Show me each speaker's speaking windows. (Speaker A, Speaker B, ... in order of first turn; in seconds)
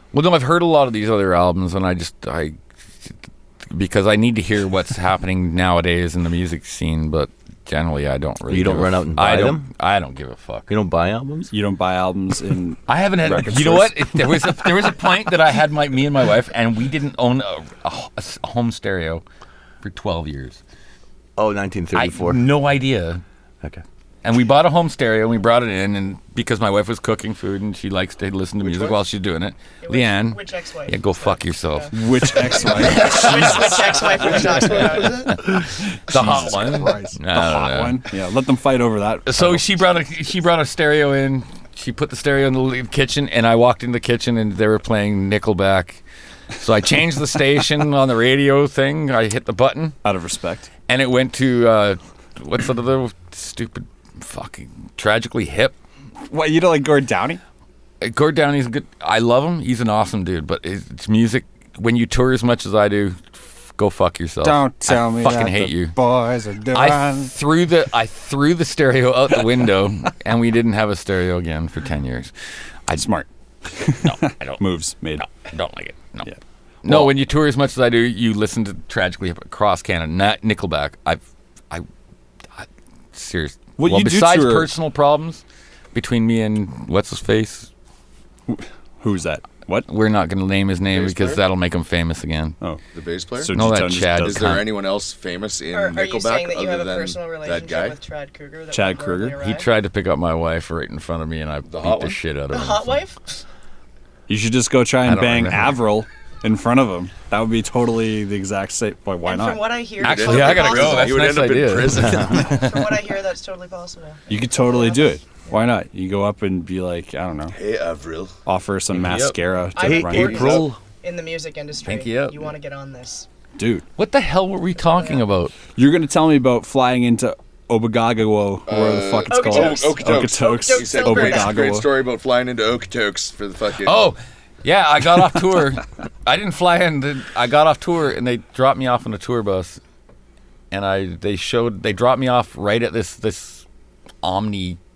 Speaker A: 0.1-10.7, 12.9-19.2, 19.8-20.6, 21.9-23.2, 24.2-38.0, 39.3-46.0, 46.6-50.0, 50.9-55.8, 58.0-66.0, 66.7-72.3, 74.0-74.6, 75.2-76.3, 76.8-81.9, 82.5-87.7, 89.9-92.6, 93.5-94.7, 99.4-103.0, 105.0-105.8, 110.0-112.9, 119.0-119.4, 121.8-122.5, 124.0-125.5, 133.8-139.8, 140.7-143.7, 144.2-144.8
Speaker B: 8.5-9.7, 10.7-11.5, 21.4-22.4, 112.0-112.3, 119.8-120.8
Speaker C: 11.5-14.5, 31.9-39.7, 50.0-50.7, 56.3-57.4, 64.4-67.3, 73.0-75.2, 76.3-77.1, 83.8-84.7, 88.5-89.9, 93.4-94.6, 98.7-99.4, 104.3-109.6, 114.3-117.6, 118.5-120.6, 123.6-123.9, 125.8-131.9
Speaker D: 28.6-29.0, 34.2-35.4, 90.9-91.4, 92.9-93.6, 94.2-98.0, 101.7-102.2, 110.0-112.7, 117.5-118.3, 120.3-120.7, 128.7-134.1
Speaker E: 29.8-31.9, 32.6-35.4, 95.7-99.7, 102.5-103.4, 109.2-111.3, 112.2-115.5, 119.8-123.3, 124.8-125.2, 129.3-131.7